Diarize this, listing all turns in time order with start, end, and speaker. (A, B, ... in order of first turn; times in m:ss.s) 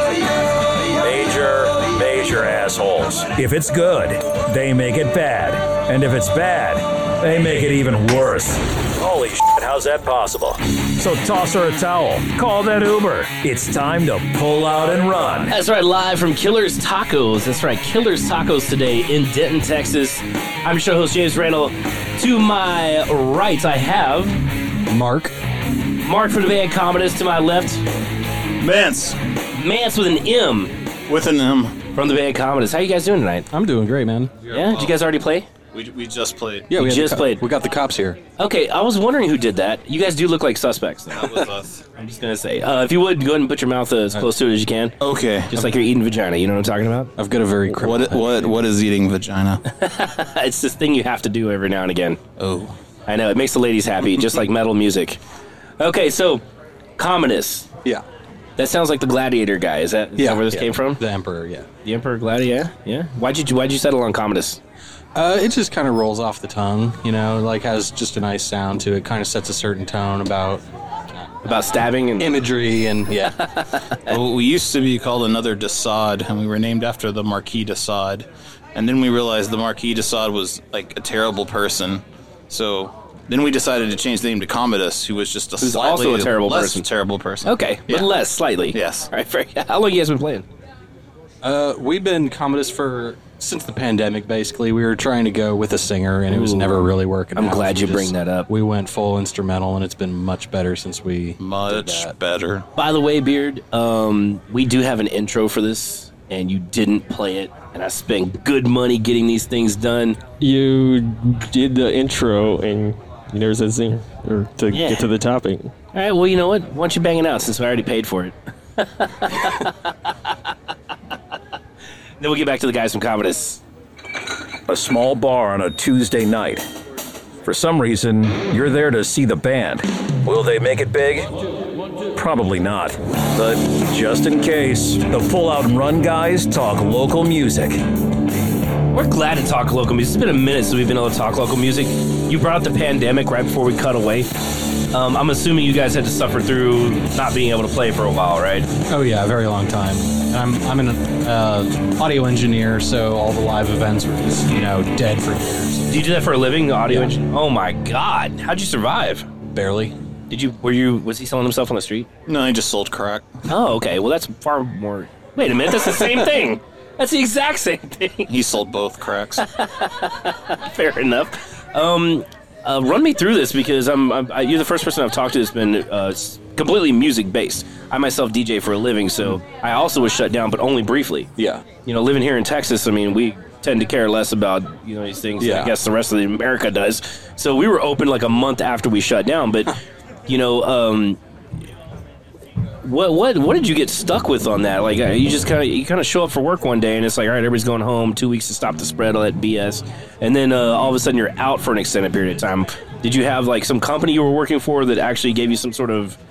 0:00.9-0:15.5 A
0:15.5-0:24.4 B
0:24.9-0:25.4 C
0:26.0-0:27.8 B
0:28.6-0:29.2 D
0:29.6-0:30.7 B
0:31.1-0:31.8 D
0:32.0-0:33.5 B
0:33.5-0:34.4 C
0:34.5-0:35.0 D
0:34.5-0:35.5 B
0:35.7-0:36.7 D
0:36.7-0:38.2 C
0:36.8-0:37.4 B
0:38.4-0:41.4 B
0:41.2-0:41.8 D
0:42.0-0:45.0 B
0:45.0-0:45.7 D
0:45.5-0:47.1 B
0:47.2-0:48.5 C
0:47.8-0:49.6 D
0:49.7-0:52.2 B
0:52.4-0:52.7 D
0:53.1-0:55.2 B
0:55.8-0:56.4 B
0:57.0-0:57.7 B
0:58.6-1:01.0 B
1:00.2-1:01.7 C
1:01.8-1:04.6 B
1:05.2-1:13.4 C
1:11.4-1:12.4 B
1:13.4-1:14.2 B
1:14.1-1:28.1 D
1:25.6-1:26.9 B
1:27.4-1:30.5 B
1:28.7-1:29.1 D
1:31.4-1:42.1 C
1:36.3-1:36.8 B
1:37.4-1:38.5 B
1:41.4-1:42.7 D
1:42.8-1:50.2 B
1:50.4-1:55.7 E
1:54.7-1:55.1 B
1:55.9-1:59.7 B
2:02.2-2:03.6 B
2:04.7-2:06.7 A
2:07.4-2:11.3 A
2:12.0-2:17.8 A
2:18.9-2:24.3 B
2:24.9-2:28.7 B
2:28.9-2:36.0 C
2:35.9-2:39.3 B
2:36.9-2:37.1 C
2:39.4-2:40.0 C
2:40.3-2:42.1 B
2:42.3-2:43.3 D
2:43.5-2:48.4 B
2:48.3-2:49.4 D
2:49.4-3:01.3 B
3:01.4-3:01.6 C
3:01.9-3:09.7 B
3:05.4-3:05.8 C
3:10.3-3:11.2 B
3:12.8-3:26.2 B